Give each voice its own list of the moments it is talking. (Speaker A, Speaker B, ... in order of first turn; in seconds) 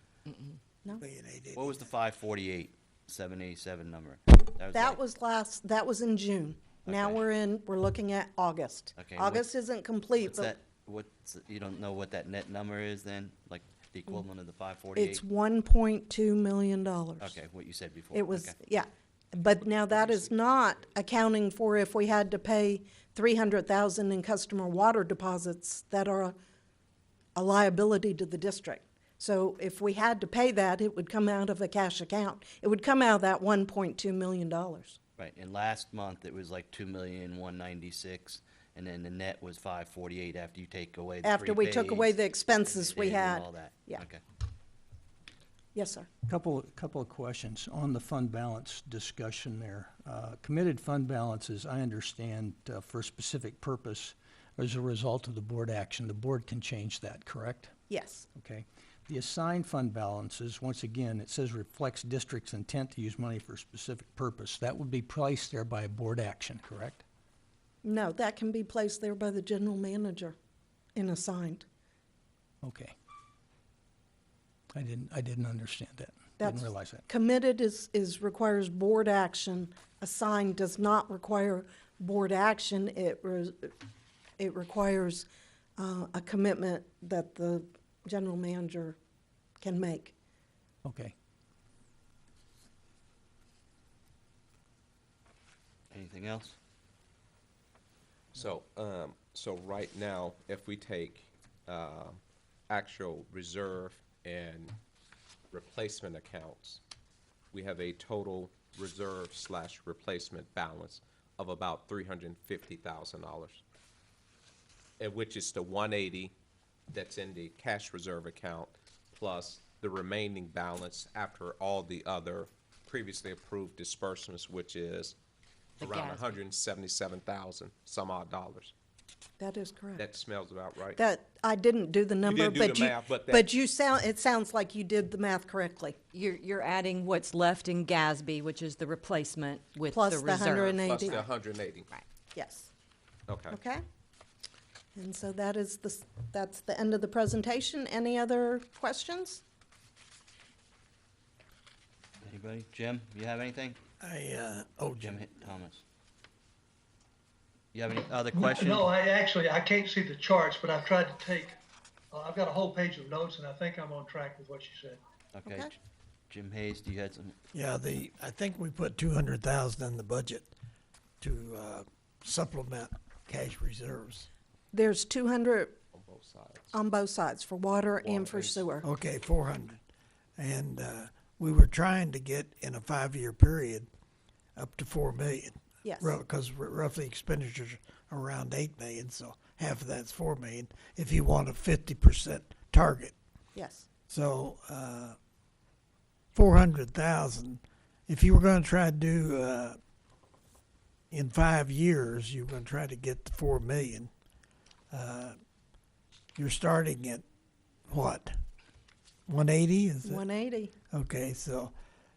Speaker A: 1.0-1.9, 154.0-155.2, 167.5-170.5, 171.2-174.3, 178.8-179.8, 180.4-183.9, 184.6-193.1, 194.1-195.2, 196.3-199.8, 201.1-204.1, 204.9-205.3, 206.3-207.2, 207.9-208.3, 209.3-210.2, 210.9-211.7
Speaker B: 1.5-5.0, 6.8-7.2, 8.9-9.5, 10.2-15.2, 17.2-18.6, 35.2-44.2, 95.9-96.6, 152.2-153.8, 155.0-155.8, 157.7-158.9, 165.3-165.8, 166.3-167.4, 178.0-178.7
Speaker C: 4.7-10.5, 14.9-17.4, 18.1-26.3, 27.4-35.0, 41.2-44.0, 45.7-46.1, 57.9-58.2, 67.8-70.3, 71.0-71.6, 76.4-83.7, 84.4-85.2, 85.8-89.0, 89.6-90.1, 129.4-130.0, 130.9-136.0, 139.9-141.2, 142.3-142.7, 143.5-143.8, 144.9-149.4, 165.4-165.7, 174.7-175.8, 176.7-178.8, 185.8-186.2, 193.5-193.9, 210.0-210.7
Speaker D: 46.3-57.7, 58.3-67.0, 72.6-72.9, 74.7-77.0, 90.8-91.1
Speaker E: 98.3-104.8, 105.5-106.8, 107.5-113.6, 115.0-116.3, 116.9-125.1, 125.8-128.7, 130.0-131.0, 132.2-133.5, 140.6-141.9, 143.3-143.6, 175.9-176.7
Speaker F: 125.8-126.4, 136.1-141.2
Speaker G: 158.4-161.5, 162.1-165.0